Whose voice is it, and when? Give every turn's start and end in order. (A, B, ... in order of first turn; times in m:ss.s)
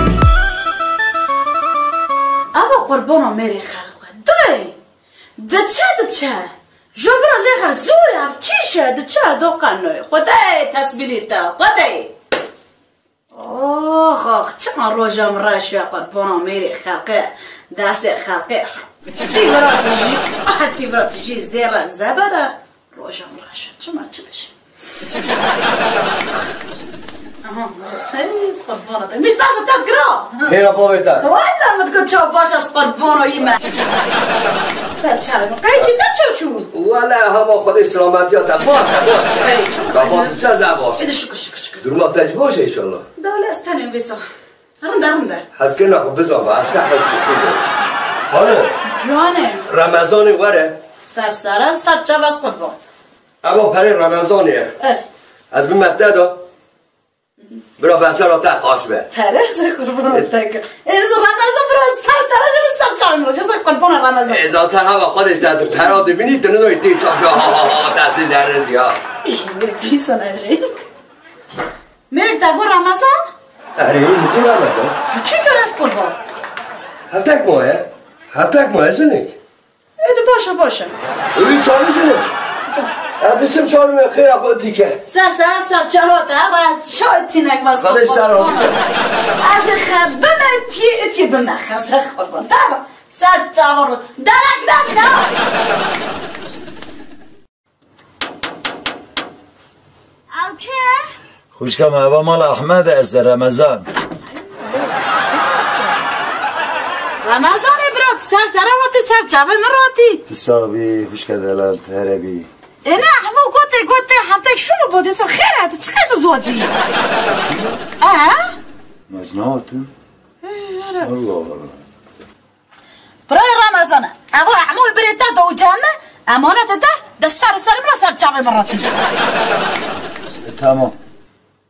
0:02.5-0:04.8 A
0:05.4-0:12.1 A
0:13.3-0:24.5 A
0:27.4-0:30.5 A
0:30.5-0:31.2 B
0:31.2-0:33.6 A
0:34.9-0:36.7 A
0:36.7-0:41.1 B
0:39.4-0:40.4 A
0:41.0-0:41.8 A
0:41.8-0:43.0 B
0:43.2-0:44.2 A
0:44.8-0:45.4 A
0:45.6-0:47.6 B
0:48.3-0:48.7 B
0:48.8-0:49.7 A
0:49.7-0:50.8 B
0:51.0-0:52.8 A
0:53.4-0:54.7 B
0:55.5-0:56.4 B
0:57.8-0:59.1 B
0:59.1-1:04.5 A
1:04.3-1:09.0 B
1:09.2-1:10.8 A
1:12.1-1:13.3 A
1:13.8-1:14.9 B
1:15.1-1:16.2 A
1:17.1-1:19.4 B
1:20.0-1:21.0 A
1:21.4-1:22.3 B
1:22.6-1:22.9 A
1:23.2-1:25.0 B
1:25.0-1:28.8 A
1:27.8-1:28.7 B
1:29.4-1:35.4 A
1:40.3-1:41.1 A
1:41.6-1:43.9 C
1:44.4-1:46.0 A
1:47.2-1:50.2 A
1:50.3-1:52.5 C
1:52.8-1:56.7 A
1:57.3-1:57.8 C
1:58.0-1:58.6 A
1:59.1-1:59.9 C
2:00.4-2:01.1 A
2:01.0-2:01.8 C
2:03.3-2:08.9 A
2:10.4-2:11.0 C